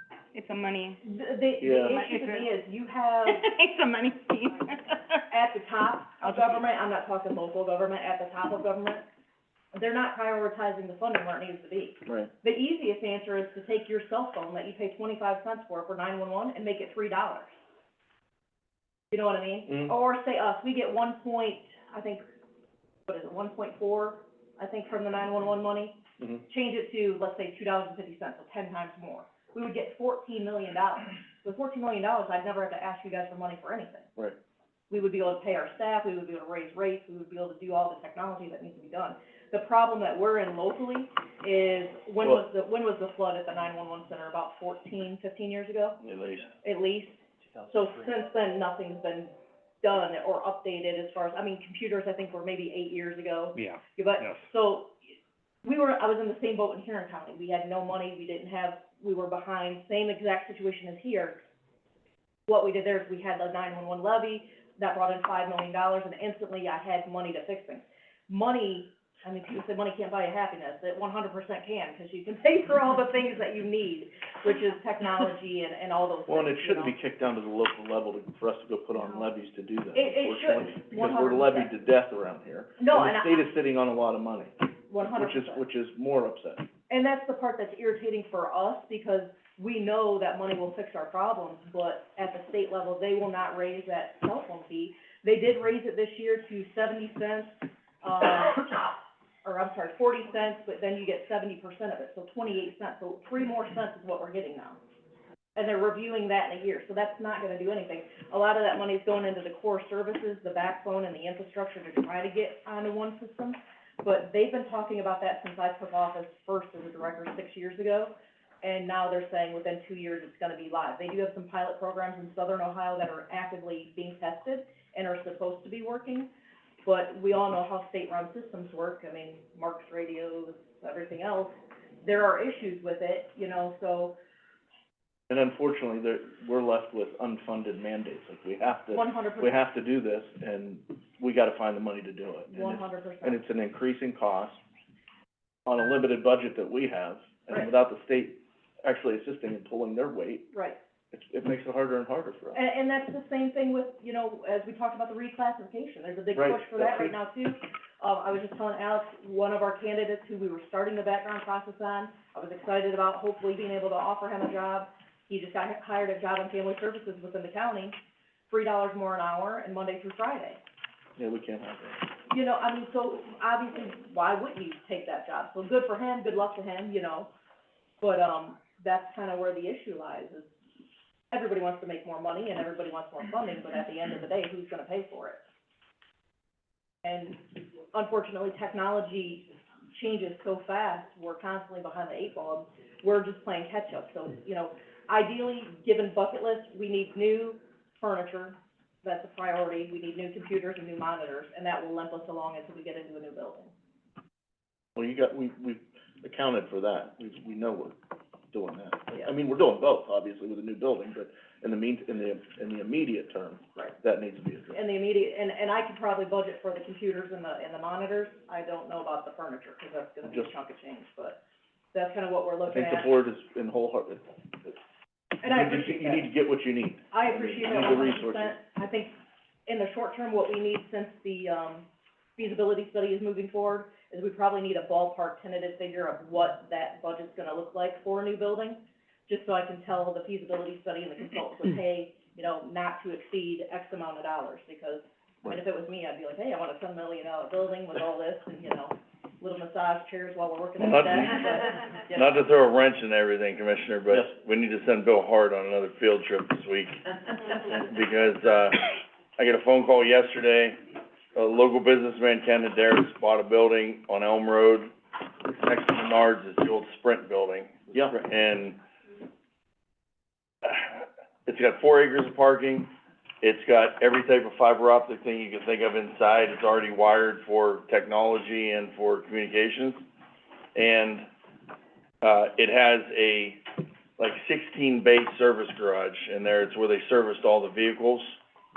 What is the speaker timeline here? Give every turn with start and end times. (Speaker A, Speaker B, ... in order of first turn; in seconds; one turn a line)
Speaker A: 0.3-1.0
Speaker B: 1.0-3.4
Speaker C: 1.6-2.0
Speaker A: 1.7-2.5
Speaker A: 3.3-5.3
Speaker B: 5.3-9.0
Speaker A: 6.2-6.6
Speaker B: 9.7-17.5
Speaker B: 19.1-22.2
Speaker B: 23.1-34.1
Speaker B: 34.9-46.0
Speaker D: 46.0-46.5
Speaker B: 46.6-55.0
Speaker B: 55.6-61.4
Speaker B: 62.5-77.0
Speaker C: 76.3-86.7
Speaker B: 79.9-81.7
Speaker B: 82.8-83.5
Speaker B: 84.9-85.6
Speaker B: 86.9-104.8
Speaker B: 105.5-126.3
Speaker B: 126.8-134.2
Speaker C: 135.3-144.6
Speaker B: 138.9-139.6
Speaker B: 142.5-143.4
Speaker C: 145.7-150.5
Speaker B: 150.5-150.8
Speaker C: 151.1-152.6
Speaker B: 152.5-168.0
Speaker C: 156.3-157.2
Speaker B: 168.5-170.6
Speaker C: 171.2-172.1
Speaker B: 172.3-177.3
Speaker B: 178.0-180.5
Speaker B: 181.3-185.4
Speaker B: 187.0-203.7
Speaker C: 205.0-208.0
Speaker C: 208.5-214.8
Speaker B: 214.7-221.4
Speaker C: 220.2-220.5
Speaker B: 221.9-223.1
Speaker C: 222.7-224.7
Speaker B: 225.4-226.3
Speaker C: 225.4-228.6
Speaker B: 227.1-229.2
Speaker B: 229.7-252.3
Speaker D: 250.8-251.3
Speaker D: 252.1-260.8
Speaker D: 261.4-264.9
Speaker D: 265.6-268.8
Speaker D: 270.6-272.9
Speaker D: 273.4-280.1
Speaker D: 280.8-281.2
Speaker D: 282.2-283.6
Speaker D: 284.2-288.4